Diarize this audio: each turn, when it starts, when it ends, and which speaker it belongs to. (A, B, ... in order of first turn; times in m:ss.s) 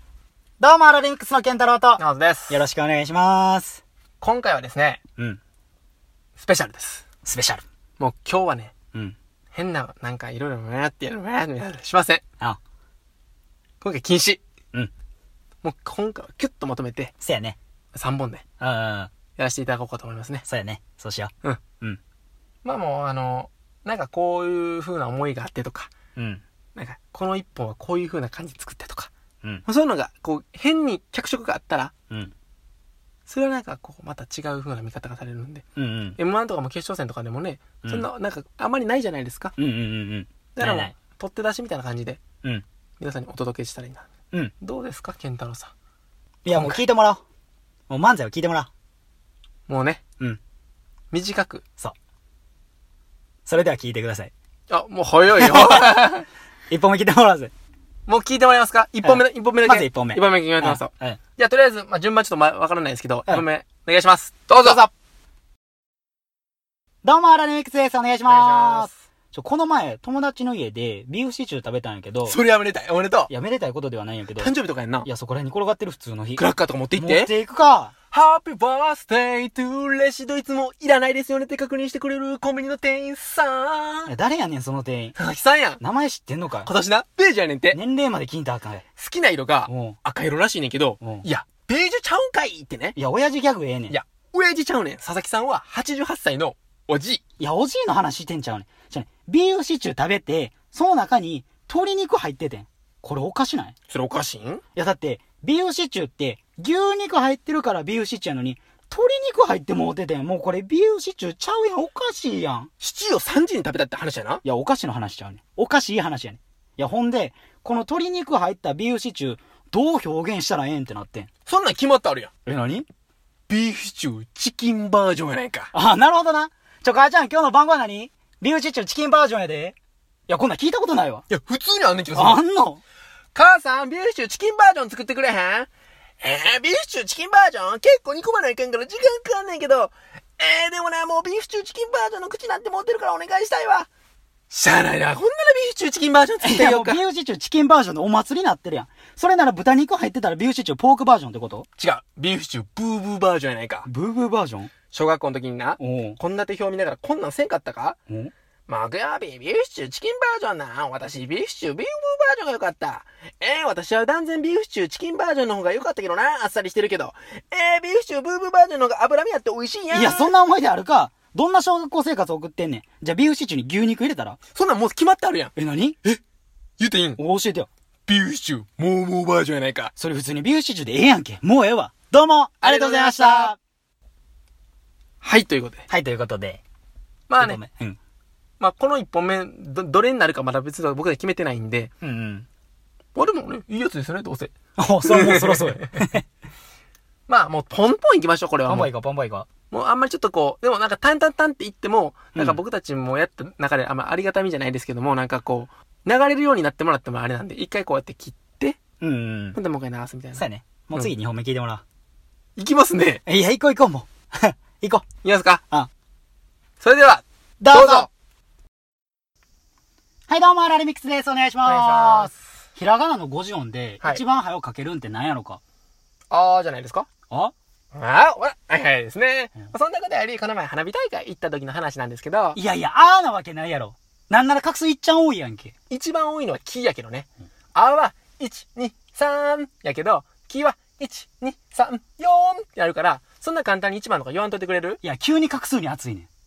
0:00.6-0:03.8 A
0:02.0-0:02.6 B
0:04.2-0:05.0 B
0:06.4-0:07.0 B
0:07.2-0:07.6 A
0:08.0-0:08.7 B
0:09.5-0:12.2 B
0:13.8-0:14.4 B
0:15.6-0:17.1 B
0:17.2-0:17.6 A
0:17.9-0:18.4 B
0:18.6-0:19.1 A
0:19.4-0:20.5 B
0:20.5-0:22.0 A
0:22.6-0:25.9 B
0:26.2-0:26.4 A
0:26.8-0:29.1 B
0:29.6-0:31.9 B
0:33.3-0:35.6 B
0:35.8-0:36.2 A
0:36.2-0:39.5 B
0:39.6-0:40.9 A
0:40.6-0:42.2 B
0:43.0-0:44.1 B
0:44.6-0:45.7 B
0:46.4-0:47.2 A
0:46.5-0:46.8 B
0:47.9-0:48.7 A
0:49.7-0:50.0 B
0:51.1-0:51.6 B
0:53.4-0:54.3 A
0:54.7-0:56.2 B
0:55.3-0:56.0 A
0:56.7-0:57.5 A
0:58.1-1:04.8 B
0:59.0-1:01.2 A
1:04.6-1:04.9 A
1:07.0-1:12.4 A
1:08.3-1:09.0 B
1:12.2-1:13.3 B
1:13.3-1:14.5 A
1:14.4-1:15.1 B
1:15.0-1:16.4 A
1:16.4-1:17.3 B
1:16.9-1:17.9 A
1:18.1-1:24.1 B
1:24.1-1:25.2 A
1:25.2-1:25.8 B
1:25.8-1:26.7 A
1:26.6-1:27.8 B
1:27.7-1:28.8 A
1:29.0-1:33.0 B
1:29.7-1:30.0 A
1:31.0-1:31.2 A
1:33.0-1:33.9 A
1:33.9-1:37.2 B
1:37.4-1:43.7 A
1:43.9-1:44.6 B
1:44.7-1:52.7 A
1:52.8-1:54.4 B
1:54.4-2:01.3 A
2:01.5-2:02.3 B
2:02.4-2:02.9 A
2:03.5-2:05.7 B
2:05.7-2:09.8 A
2:10.3-2:11.2 A
2:11.3-2:12.4 B
2:12.2-2:12.8 A
2:13.3-2:15.7 B
2:16.2-2:23.9 B
2:24.5-2:27.0 B
2:26.4-2:31.7 A
2:31.8-2:33.9 B
2:33.8-2:34.7 A
2:34.9-2:38.0 B
2:35.8-2:36.2 A
2:38.7-2:50.3 B
2:49.9-2:54.4 A
2:54.5-2:55.5 B
2:55.6-2:56.0 A
2:56.8-2:57.2 B
2:57.2-2:57.7 A
2:58.1-2:59.9 B
3:00.0-3:03.6 A
3:02.6-3:03.5 B
3:05.2-3:05.8 B
3:05.9-3:06.6 A
3:07.3-3:07.6 B
3:07.4-3:08.0 A
3:08.6-3:11.9 B
3:12.0-3:12.5 A
3:13.2-3:14.5 B
3:14.8-3:16.2 A
3:15.0-3:15.9 B
3:17.3-3:18.9 B
3:18.7-3:19.5 A
3:19.7-3:28.8 B
3:29.0-3:29.6 A
3:29.5-3:31.1 B
3:30.4-3:31.8 A
3:32.6-3:33.2 B
3:33.3-3:35.0 A
3:35.2-3:35.6 B
3:36.8-3:38.1 B
3:37.6-3:38.1 A
3:40.3-3:45.6 A
3:41.6-3:42.4 B
3:46.3-3:47.1 B
3:47.9-3:52.6 B
3:52.6-3:55.7 A
3:55.9-4:05.0 B
4:05.0-4:06.3 A